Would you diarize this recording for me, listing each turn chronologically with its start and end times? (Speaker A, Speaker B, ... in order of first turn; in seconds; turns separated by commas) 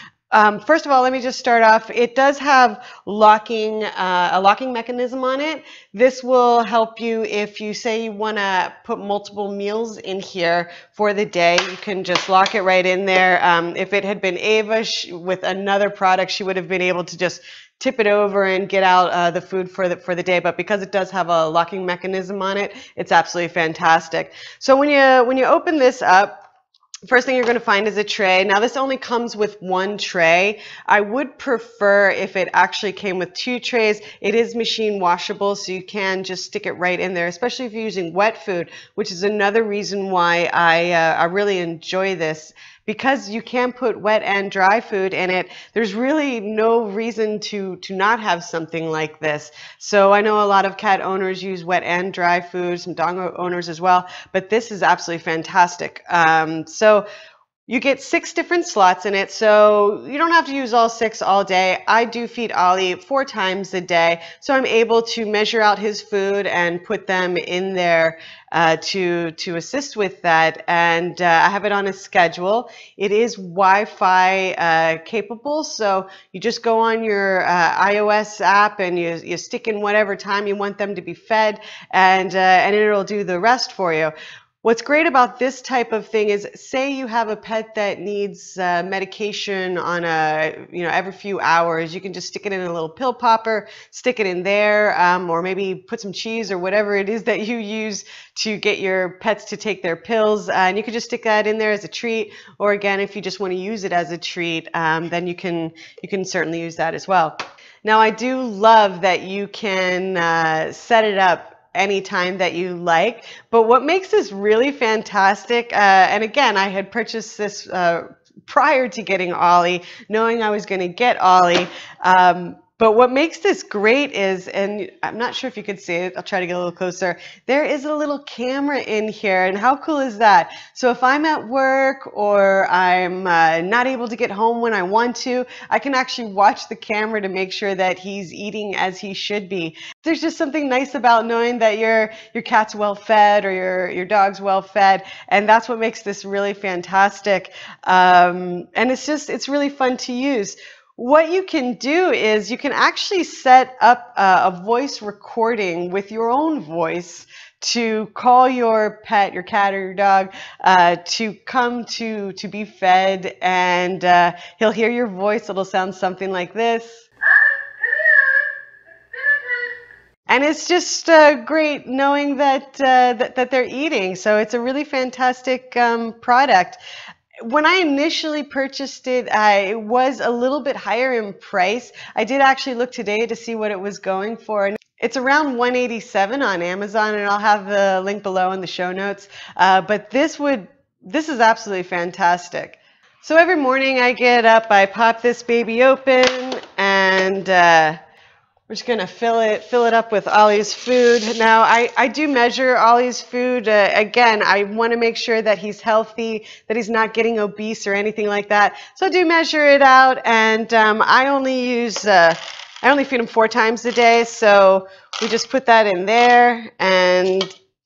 Speaker A: 0.3-26.4, Speaker A: 27.1-57.1, Speaker A: 57.7-167.1, Speaker A: 167.9-168.4, Speaker A: 170.3-176.8, Speaker A: 177.4-198.0, Speaker A: 198.7-217.5